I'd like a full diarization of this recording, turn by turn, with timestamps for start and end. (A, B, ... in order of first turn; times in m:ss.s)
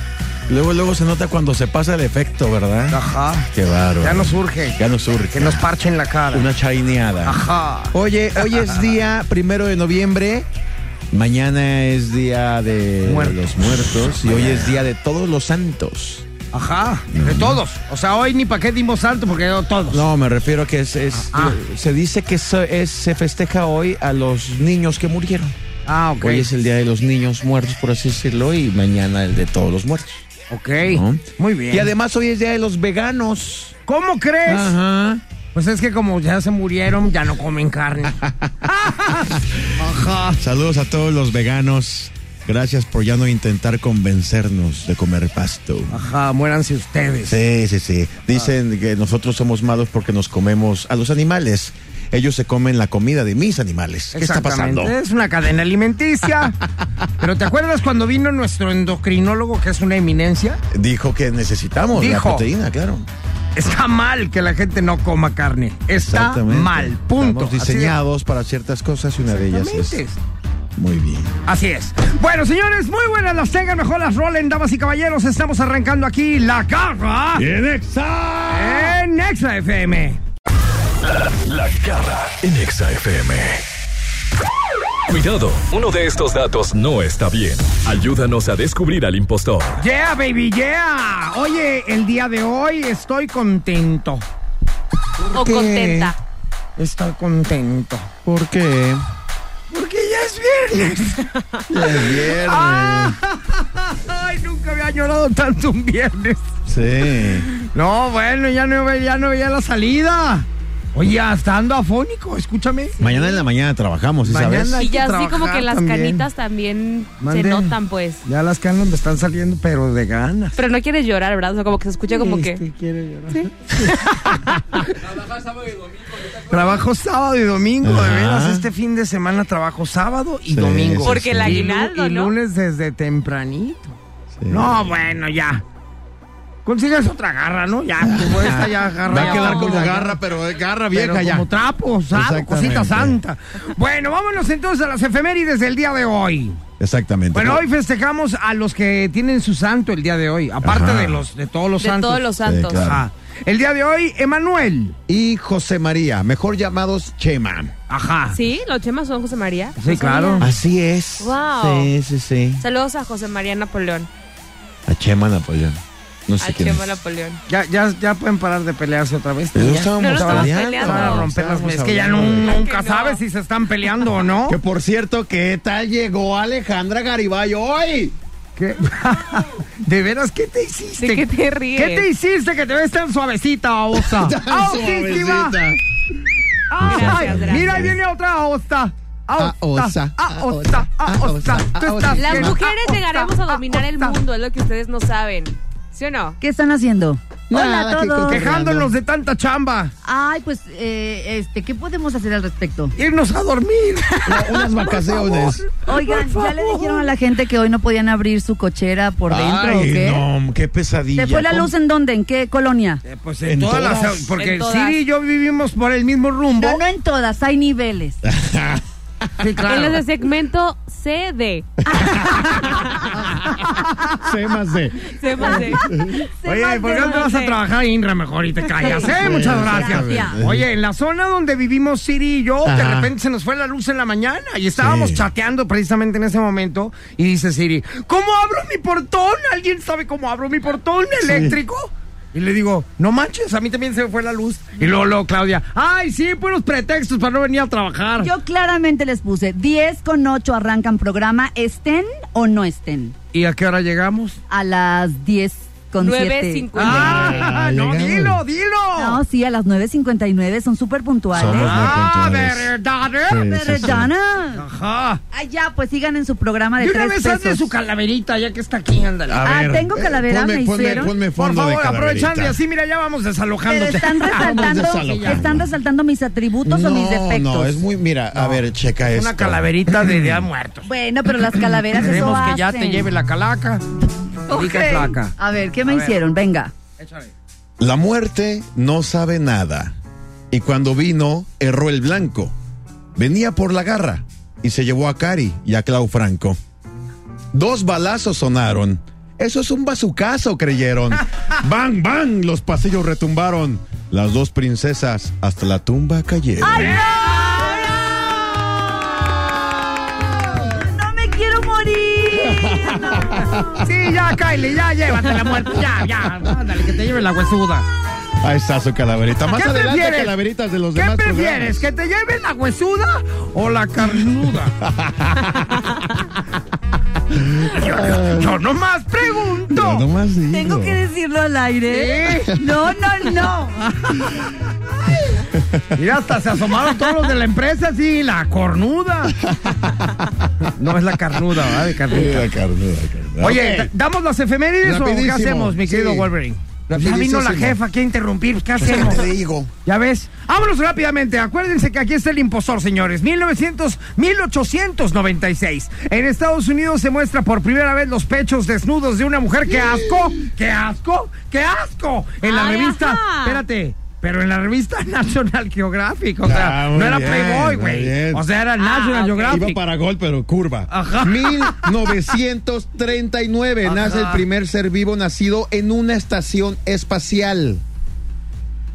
0:00.5-0:05.6 A
0:02.9-0:03.5 B
0:04.0-0:04.8 B
0:05.3-0:06.5 B
0:06.3-0:10.5 A
0:07.2-0:08.8 B
0:11.1-0:16.3 A
0:13.0-0:14.8 B
0:16.5-0:20.0 B
0:17.1-0:17.6 A
0:19.9-0:25.5 A
0:21.3-0:21.6 B
0:25.9-0:26.5 B
0:26.2-0:30.3 A
0:30.5-0:31.9 B
0:30.8-0:33.7 A
0:33.9-0:34.8 B
0:34.4-0:35.2 A
0:35.5-0:40.4 B
0:38.2-0:39.6 A
0:40.4-0:45.9 A
0:45.9-0:47.4 B
0:47.2-0:55.0 A
0:54.1-0:56.6 B
0:57.2-1:00.6 B
1:00.7-1:03.1 A
1:01.9-1:02.5 B
1:03.5-1:08.0 B
1:05.9-1:10.0 A
1:09.2-1:10.2 B
1:10.8-1:11.3 A
1:11.4-1:17.4 B
1:17.3-1:19.0 A
1:18.5-1:20.2 B
1:21.0-1:23.6 C
1:25.1-1:29.8 C
1:29.8-1:34.2 B
1:35.3-1:36.1 A
1:35.3-1:36.2 D
1:36.8-1:38.1 B
1:38.2-1:39.0 A
1:39.7-1:41.3 B
1:41.7-1:43.2 A
1:41.8-1:46.5 B
1:46.7-1:47.5 A
1:47.6-1:52.9 B
1:53.0-1:53.4 D
1:53.0-1:54.8 A
1:54.3-1:56.2 B
1:54.8-1:58.2 D
1:57.2-2:00.6 B
2:00.6-2:02.6 D
2:02.1-2:05.2 B
2:03.3-2:04.4 D
2:06.2-2:13.9 B
2:07.8-2:08.7 A
2:10.5-2:11.6 A
2:11.0-2:12.3 D
2:14.3-2:14.9 A
2:14.5-2:15.6 B
2:16.6-2:20.2 B
2:18.0-2:21.5 A
2:19.1-2:19.8 D
2:20.9-2:26.6 B
2:22.1-2:23.2 A
2:26.8-2:27.6 A
2:27.3-2:35.0 B
2:30.6-2:31.2 A
2:31.8-2:32.9 D
2:32.4-2:33.0 A
2:35.1-2:37.7 A
2:37.9-2:38.4 B
2:38.3-2:40.5 D
2:39.8-2:40.5 B
2:40.4-2:42.6 A
2:41.2-2:41.9 D
2:42.6-2:44.1 D
2:44.9-2:47.0 A
2:46.4-2:47.4 D
2:47.5-2:54.6 B
2:49.5-2:52.6 A
2:50.0-2:51.2 D
2:52.3-2:53.2 D
2:54.5-2:58.2 A
2:58.6-3:05.6 B
3:01.0-3:02.1 D
3:04.0-3:05.8 A
3:06.7-3:07.9 D
3:06.8-3:08.0 A
3:06.8-3:14.2 B
3:09.4-3:12.6 A
3:12.1-3:16.4 D
3:16.4-3:18.4 E
3:17.5-3:18.9 A
3:18.2-3:19.9 B
3:20.0-3:22.9 E
3:23.0-3:27.1 B
3:24.2-3:25.6 A
3:25.8-3:30.2 E
3:29.3-3:31.7 A
3:31.2-3:33.0 E
3:33.0-3:36.8 B
3:33.4-3:34.3 A
3:34.4-3:35.0 D
3:36.6-3:38.2 E
3:38.2-3:38.8 A
3:39.4-3:40.0 B
3:39.6-3:43.0 D
3:41.9-3:43.4 A
3:43.3-3:44.1 B
3:44.1-3:46.2 A
3:45.0-3:45.8 D
3:45.4-3:47.3 E
3:46.4-4:08.3 B
3:46.8-3:47.6 D
3:48.8-3:50.4 E
3:49.2-3:50.6 A
3:52.6-3:53.1 A
3:54.8-3:55.3 A
4:01.2-4:01.6 A
4:08.2-4:13.1 E
4:13.3-4:14.4 B
4:14.5-4:17.5 E
4:16.0-4:17.3 D
4:16.8-4:19.2 B
4:16.8-4:18.4 A
4:19.0-4:21.9 E
4:21.3-4:22.7 A
4:21.4-4:24.0 B
4:23.3-4:24.1 A
4:23.3-4:24.6 E
4:24.6-4:25.2 B
4:25.3-4:27.7 E
4:26.8-4:29.5 B
4:29.3-4:32.6 A
4:29.4-4:31.1 E
4:31.2-4:35.4 B
4:33.6-4:37.8 E
4:34.3-4:35.7 A
4:36.6-4:40.4 A
4:38.3-4:40.9 B
4:40.8-4:43.1 E
4:41.9-4:43.8 B
4:44.5-4:45.3 B
4:44.5-4:46.7 E
4:45.8-4:46.2 B
4:47.0-4:47.3 B
4:47.8-4:49.9 A
4:50.5-4:52.5 A
4:53.1-4:56.6 A
4:57.5-5:07.0 A
5:06.6-5:13.5 E
5:06.8-5:08.4 B
5:12.3-5:13.6 A
5:13.8-5:17.8 B
5:18.4-5:21.9 A
5:19.5-5:20.4 B
5:20.9-5:24.7 B
5:24.8-5:26.4 A
5:27.3-5:28.6 A
5:27.6-5:30.0 B
5:29.7-5:31.0 A
5:30.5-5:34.3 E
5:31.9-5:32.5 B
5:35.5-5:35.9 A
5:35.9-5:39.4 B
5:39.4-5:40.5 A
5:40.6-5:42.5 B
5:41.3-5:43.9 A
5:43.4-5:49.3 B
5:44.8-5:46.3 A
5:46.9-5:47.8 A
5:48.8-5:49.7 A
5:49.8-6:09.8 B
5:59.7-6:00.3 A
6:02.4-6:03.6 D
6:06.4-6:08.4 A
6:08.8-6:09.8 D
6:09.5-6:17.8 A
6:10.9-6:12.2 B
6:13.8-6:14.4 B